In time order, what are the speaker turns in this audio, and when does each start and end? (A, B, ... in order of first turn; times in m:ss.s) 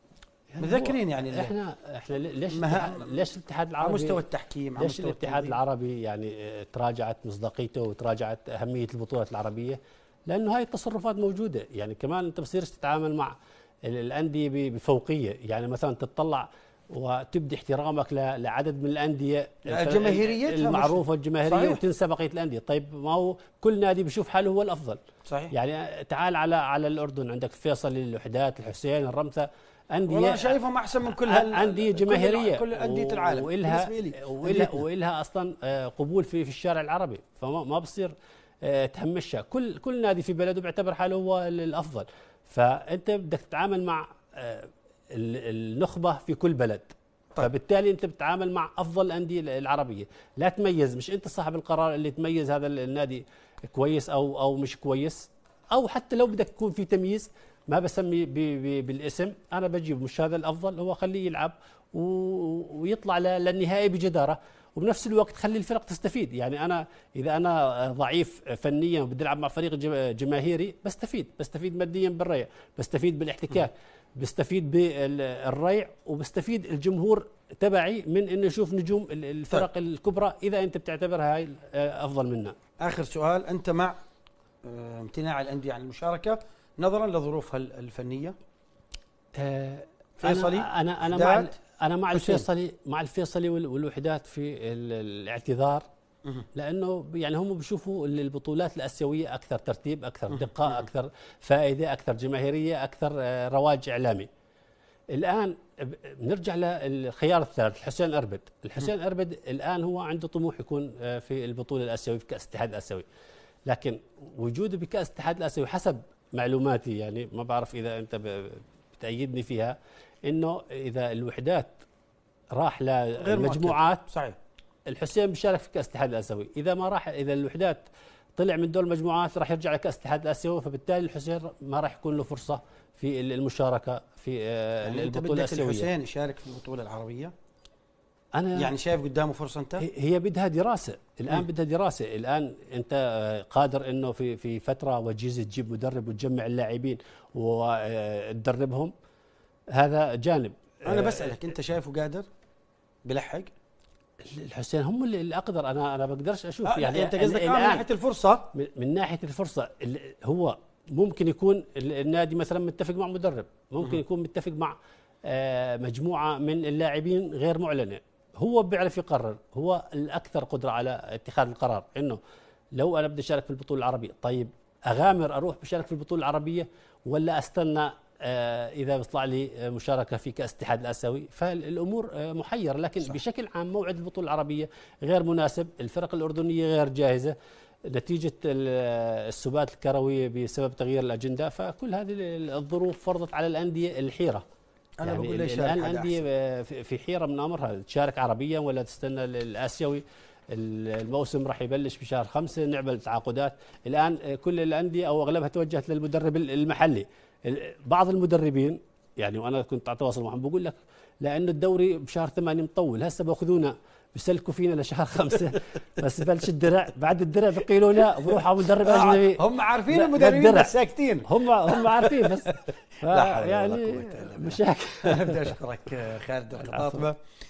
0:00.5-0:04.2 A
0:00.6-0:01.5 B
0:02.5-0:03.2 B
0:03.8-0:05.6 B
0:04.8-0:25.0 A
0:19.7-0:21.8 B
0:25.3-0:25.5 B
0:25.5-0:30.6 A
0:30.1-0:34.8 B
0:31.1-1:22.6 A
1:22.8-1:24.0 B
1:24.6-1:28.4 B
1:29.3-1:35.8 A
1:30.2-1:31.6 B
1:32.1-1:32.4 B
1:36.6-1:44.3 A
1:40.3-1:40.8 B
1:45.1-1:53.1 A
1:53.7-2:01.8 A
2:02.5-2:04.0 A
2:03.2-2:04.4 B
2:04.9-2:15.9 A
2:14.8-2:17.3 B
2:18.4-2:18.7 A
2:18.6-2:19.8 B
2:19.8-2:28.9 A
2:29.7-2:31.4 A
2:30.8-2:32.3 B
2:33.1-2:33.5 B
2:34.2-2:37.8 A
2:36.6-2:38.5 B
2:38.5-2:52.2 A
2:52.8-3:07.3 A
3:07.9-3:14.4 A
3:15.0-3:16.2 B
3:15.0-3:45.6 A
3:38.8-3:47.2 B
3:46.6-3:47.0 A